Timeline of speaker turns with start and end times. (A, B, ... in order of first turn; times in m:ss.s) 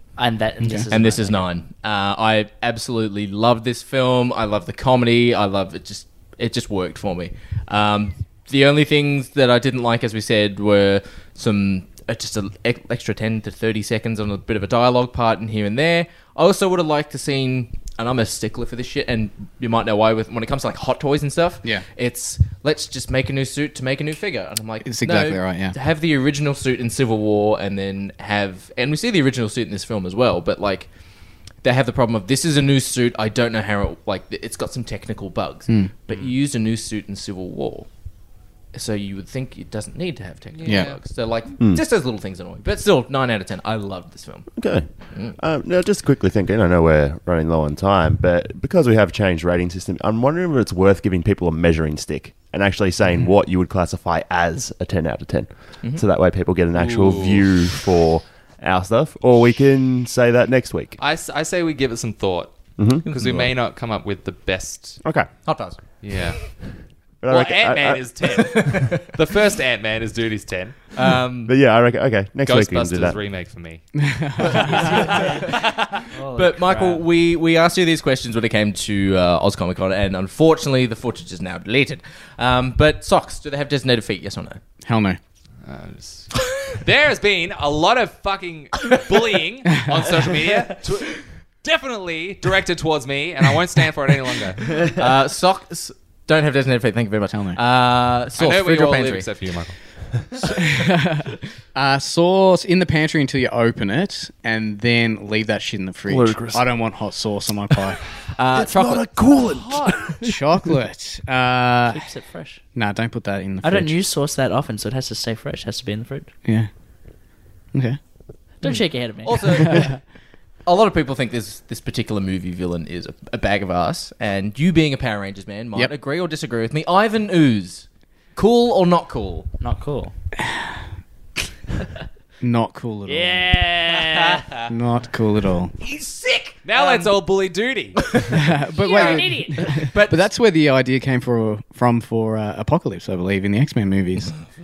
0:00.2-0:01.4 A
0:00.6-0:00.9 B
0:00.9-0:30.9 C
0:24.8-0:25.8 B
0:31.6-0:37.9 C
0:35.7-0:35.9 B
0:38.7-0:45.4 C
0:40.5-0:41.0 D
0:40.6-0:41.0 B
0:41.6-0:41.8 E
0:44.6-1:01.0 E
0:56.8-0:57.5 D
1:01.0-1:02.6 D
1:02.8-1:03.0 E
1:03.0-1:03.5 C
1:03.1-1:05.0 D
1:05.4-1:05.8 C
1:06.0-1:11.0 D
1:07.2-1:08.5 E
1:08.3-1:09.1 C
1:11.0-1:11.5 C
1:11.4-1:13.2 E
1:12.5-1:15.8 D
1:14.1-1:15.1 B
1:14.6-1:17.1 A
1:16.3-1:24.6 C
1:24.8-1:25.2 B
1:25.6-1:34.8 D
1:34.6-1:39.3 C
1:37.3-1:37.6 B
1:38.3-1:39.8 D
1:40.4-1:48.0 B
1:46.1-1:46.9 E
1:47.8-1:50.4 E
1:48.3-1:49.6 C
1:49.3-1:50.1 D
1:50.2-1:52.0 B
1:51.9-1:52.6 A
1:52.7-1:54.0 B
1:53.6-1:56.3 A
1:56.4-1:56.7 B
1:57.7-1:58.0 B
1:58.6-1:59.9 A
1:59.2-1:59.9 C
1:59.5-2:00.0 B
2:00.6-2:09.5 C
2:09.6-2:10.1 A
2:12.4-2:13.6 B
2:13.1-2:14.4 A
2:14.7-2:15.7 B
2:15.8-2:17.0 C
2:16.6-2:18.0 D
2:18.0-2:18.4 C
2:18.3-2:24.3 B
2:18.8-2:19.7 A
2:19.0-2:20.3 C